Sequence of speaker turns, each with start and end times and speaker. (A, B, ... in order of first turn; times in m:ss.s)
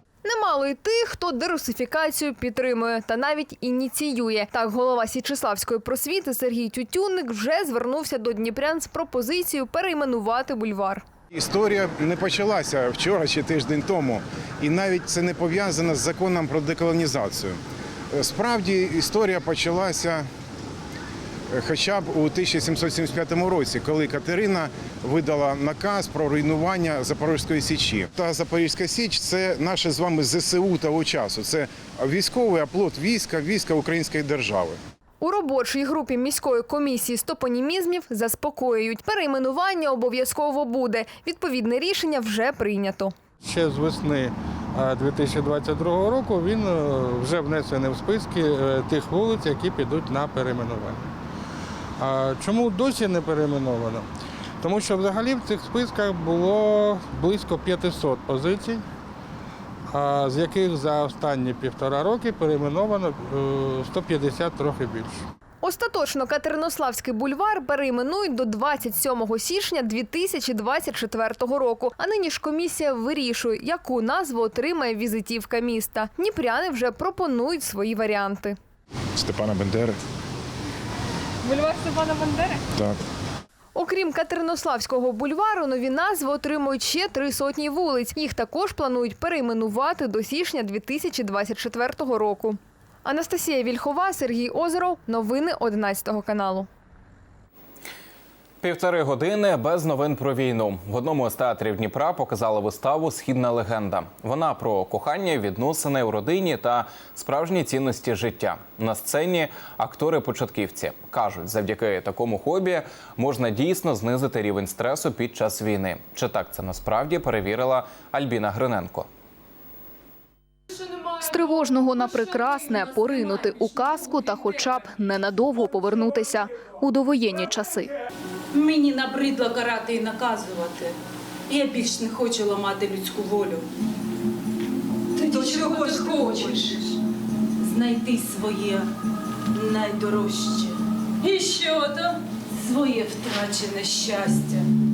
0:00.2-0:11.0 A
0:11.3-0:17.6 B
0:18.1-0:20.2 B
0:21.6-0:34.8 B
0:35.2-0:43.1 A
0:43.4-0:51.1 C
0:52.0-0:54.1 C
0:54.6-0:58.8 C
0:59.9-1:05.1 C
1:05.6-1:18.6 A
1:19.2-1:20.0 B
1:21.4-1:22.6 A
1:23.7-1:36.7 A
1:38.6-1:59.1 D
2:01.2-2:07.9 E
2:08.5-2:10.9 F
2:11.5-2:13.6 F
2:15.2-2:17.0 F
2:17.6-2:18.9 F
2:19.5-2:24.6 F